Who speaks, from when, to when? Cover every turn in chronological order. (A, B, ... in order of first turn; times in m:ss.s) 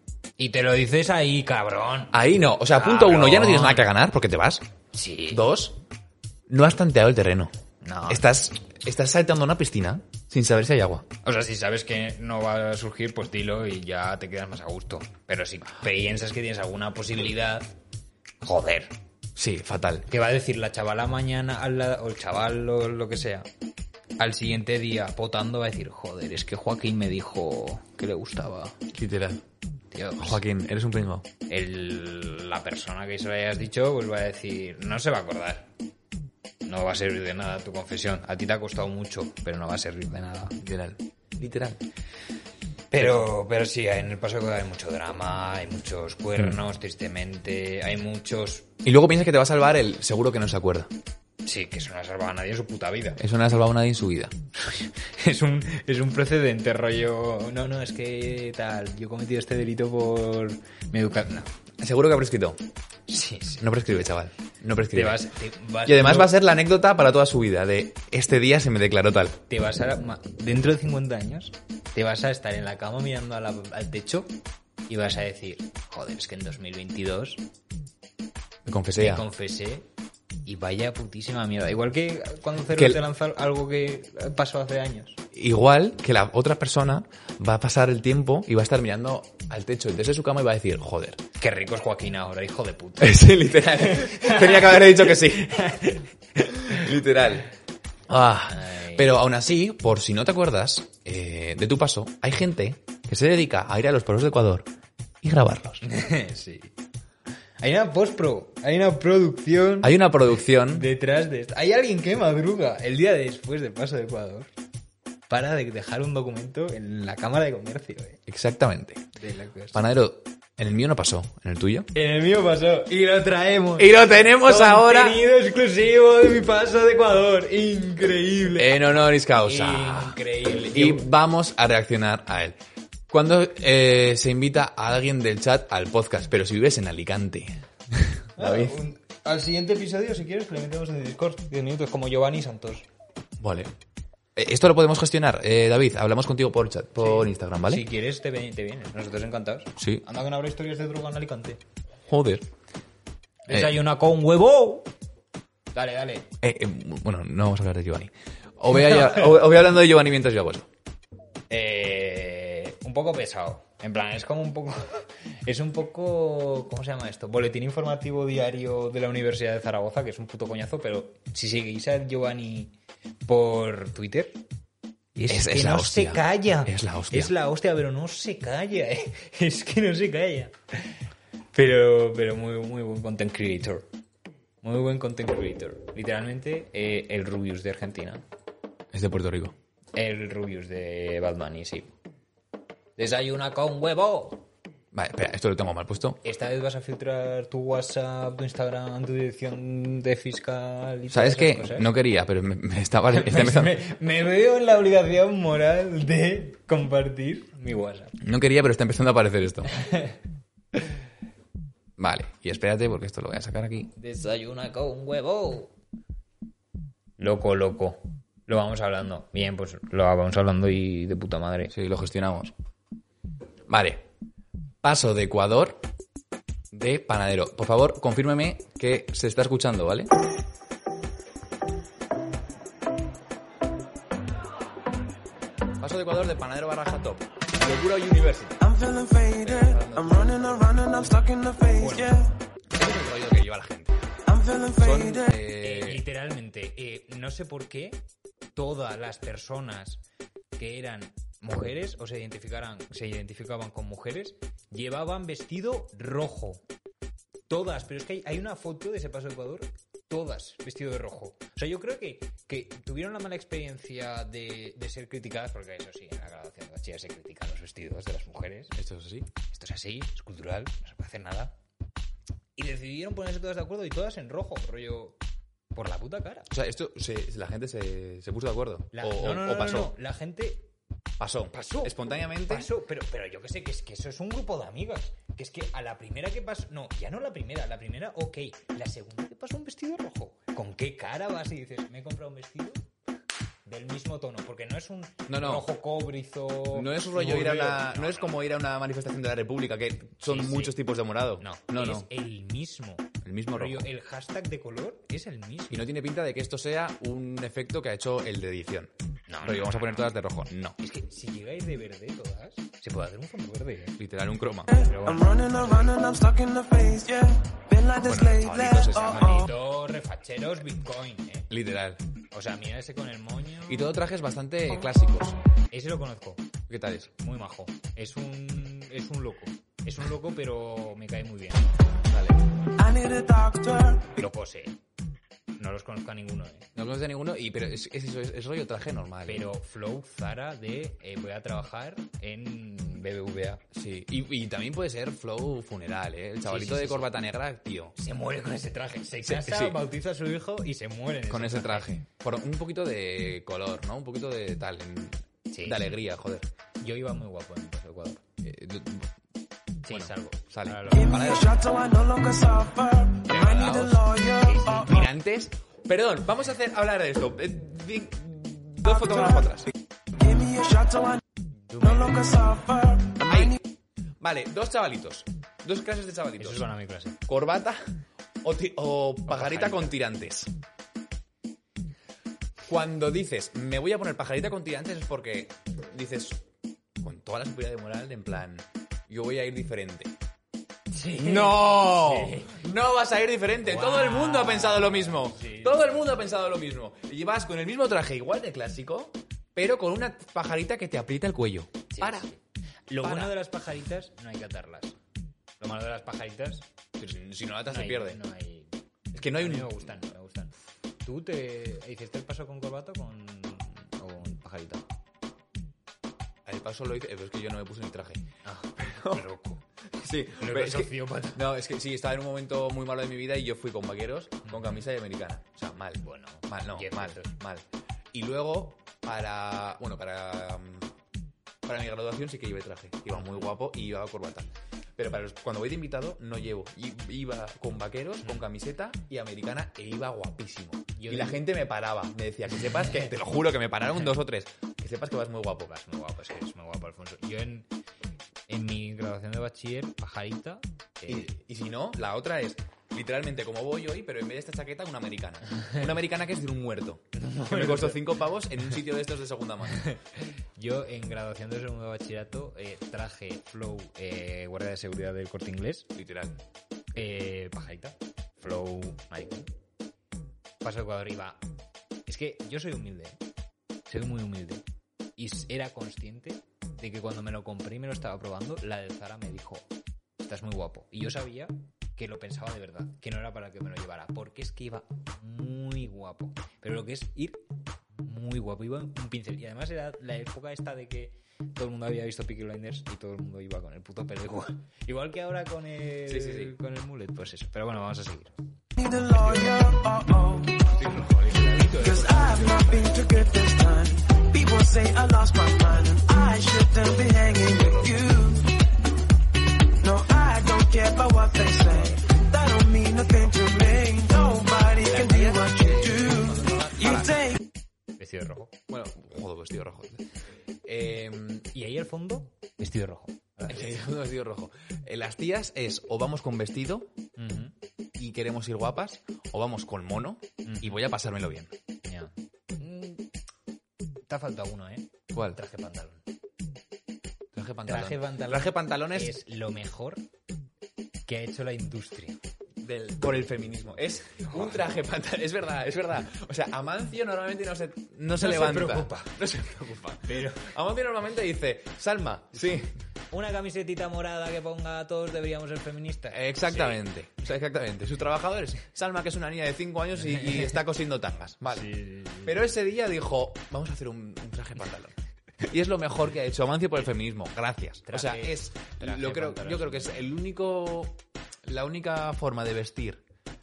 0:00.4-0:02.2 A
0:02.1-0:04.6 B
0:02.7-0:03.9 A
0:04.9-0:05.4 A
0:05.3-0:05.8 B
0:06.5-0:07.5 B
0:07.8-0:08.3 A
0:08.1-0:11.0 B
0:11.2-0:17.7 A
0:18.4-0:18.9 A
0:19.4-0:20.1 B
0:20.1-0:23.5 A
0:24.2-0:28.8 A
0:28.9-0:29.4 B
0:29.9-0:30.4 A
0:30.2-0:31.3 B
0:31.5-0:35.7 A
0:36.6-0:40.6 A
0:40.6-0:41.8 B
0:42.9-0:48.7 A
0:48.8-0:50.9 B
0:51.4-0:53.2 A
0:53.2-0:54.3 B
0:54.6-1:01.5 A
1:01.8-1:02.6 B
1:03.1-1:03.6 A
1:03.6-1:05.3 B
1:04.9-1:06.3 A
1:05.8-1:09.4 B
1:09.5-1:14.3 A
1:14.9-1:17.4 A
1:18.6-1:19.2 B
1:19.0-1:19.8 A
1:20.4-1:25.2 A
1:22.7-1:23.0 B
1:25.3-1:31.2 B
1:31.4-1:36.8 A
1:33.0-1:35.6 B
1:36.6-1:37.4 B
1:38.1-1:44.7 B
1:38.5-1:39.1 A
1:45.2-1:45.8 B
1:45.8-1:46.7 A
1:47.6-1:50.1 A
1:49.8-1:50.9 B
1:50.7-1:54.5 A
1:55.3-1:58.2 A
1:58.3-1:59.0 B
1:59.2-1:59.8 A
1:59.7-2:01.9 B
2:01.9-2:08.8 A
2:03.8-2:05.2 B
2:08.5-2:12.6 B
2:09.4-2:11.1 A
2:13.1-2:18.8 B
2:18.4-2:22.8 A
2:23.4-2:23.7 B
2:24.4-2:27.8 B
2:27.0-2:31.6 A
2:29.8-2:30.0 B
2:32.1-2:32.5 B
2:33.4-2:34.9 A
2:33.5-2:33.8 B
2:35.7-2:36.3 A
2:36.4-2:40.7 B
2:38.9-2:39.2 A
2:41.5-2:52.7 A
2:53.2-2:54.4 A
2:55.2-2:57.3 B
2:55.2-3:00.5 A
3:01.5-3:03.9 A
3:04.6-3:08.2 A
3:08.9-3:09.5 B
3:09.9-3:11.9 A
3:13.0-3:14.4 A
3:14.9-3:16.2 B
3:16.2-3:21.9 A
3:21.1-3:23.8 B
3:23.1-3:28.1 A
3:28.2-3:29.7 B
3:29.8-3:30.1 A
3:32.0-3:33.9 B
3:34.0-3:35.7 A
3:37.2-3:41.7 A
3:41.7-3:42.5 B
3:43.7-3:44.0 B
3:44.8-3:45.8 B
3:46.7-3:50.1 B
3:55.8-3:58.6 B
3:58.6-4:02.3 C
3:59.4-4:00.7 B
4:01.8-4:02.1 A
4:02.7-4:04.0 B
4:04.3-4:05.3 C
4:04.8-4:06.0 B
4:05.6-4:08.0 A
4:08.6-4:10.0 A
4:10.6-4:16.6 A
4:17.5-4:28.7 A
4:28.7-4:29.3 B
4:29.5-4:31.6 A
4:32.6-4:35.2 A
4:35.7-4:36.5 A
4:36.5-4:39.9 B
4:38.9-4:40.7 A
4:41.2-4:42.7 B
4:41.5-4:52.8 A
4:53.6-4:58.4 A
4:55.3-4:55.7 B
4:56.7-5:02.1 B
5:00.2-5:00.8 A
5:01.4-5:05.9 A
5:03.2-5:03.9 B
5:05.7-5:08.9 B
5:09.3-5:09.8 A
5:09.4-5:10.8 B
5:10.8-5:14.0 A
5:14.0-5:14.7 B
5:14.7-5:19.5 C
5:14.8-5:15.7 A
5:18.0-5:19.5 B
5:19.1-5:21.5 A
5:21.5-5:22.0 B
5:22.3-5:23.8 A
5:23.7-5:25.4 B
5:25.7-5:26.5 A
5:26.7-5:27.1 B
5:27.2-5:31.7 A
5:32.1-5:32.4 B
5:32.8-5:34.1 C
5:34.2-5:34.8 A
5:35.6-5:36.7 A
5:36.8-5:39.5 B
5:39.3-5:43.6 A
5:43.7-5:47.9 B
5:46.4-5:47.1 A
5:48.0-5:51.9 A
5:49.2-5:49.8 B
5:51.3-5:56.5 B
5:55.5-5:55.9 A
5:56.8-5:58.2 A
5:58.4-5:59.1 B
5:59.8-6:01.5 A
5:59.9-6:00.9 B
6:00.9-6:04.8 C
6:03.3-6:04.0 B
6:03.3-6:03.6 A
6:04.4-6:05.0 A
6:04.8-6:09.7 B
6:10.2-6:11.2 C
6:11.7-6:12.2 A
6:11.8-6:13.6 C
6:13.3-6:13.6 B
6:14.2-6:16.6 B
6:16.4-6:17.2 A
6:17.2-6:17.8 B
6:18.4-6:20.5 B
6:19.3-6:20.0 A
6:22.6-6:26.4 B
6:27.0-6:30.1 B
6:30.9-6:32.6 A
6:31.2-6:42.3 B
6:33.6-6:36.1 A
6:41.9-6:45.0 A
6:43.0-6:43.4 B
6:45.6-6:46.7 A
6:47.0-6:48.2 B
6:47.7-6:54.8 A
6:49.1-6:49.9 B
6:56.4-6:58.2 B
6:58.4-6:59.6 A
6:58.8-6:59.2 B
6:59.9-7:10.9 B
7:00.4-7:01.4 A
7:04.4-7:04.8 A
7:06.0-7:07.3 A
7:11.6-7:25.7 B
7:13.1-7:13.4 A
7:20.9-7:21.4 A
7:22.7-7:23.1 A
7:25.6-7:27.7 A
7:28.5-7:31.3 A
7:31.1-7:39.8 B
7:35.6-7:35.9 A
7:37.2-7:38.1 A
7:39.8-7:45.9 A
7:45.9-7:46.4 B
7:46.9-7:49.5 A
7:50.6-7:51.4 A
7:52.1-7:53.2 A
7:53.9-7:54.6 A
7:55.2-7:59.7 A
8:00.2-8:07.4 A
8:08.0-8:18.4 A
8:16.0-8:16.5 B
8:18.8-8:20.7 C
8:20.7-8:22.9 B
8:21.8-8:28.5 C
8:27.6-8:27.9 A
8:29.8-8:37.4 C
8:34.8-8:37.3 B
8:38.0-8:38.5 A
8:38.7-8:40.0 B
8:40.6-8:41.5 B
8:41.5-8:43.7 A
8:43.5-8:46.9 B
8:47.2-8:47.5 A
8:48.0-8:51.5 B
8:50.4-8:50.8 A
8:51.8-8:53.0 A
8:54.1-8:56.0 A
8:55.1-8:55.4 B
8:57.3-8:59.1 B
8:57.6-9:00.0 A
9:01.0-9:02.2 A
9:02.6-9:12.7 B
9:04.2-9:04.7 A
9:08.2-9:09.2 A
9:10.0-9:10.5 A
9:13.1-9:16.8 A
9:16.1-9:21.7 B
9:20.0-9:20.5 A
9:21.5-9:22.4 A
9:22.2-9:33.0 B
9:27.8-9:30.1 A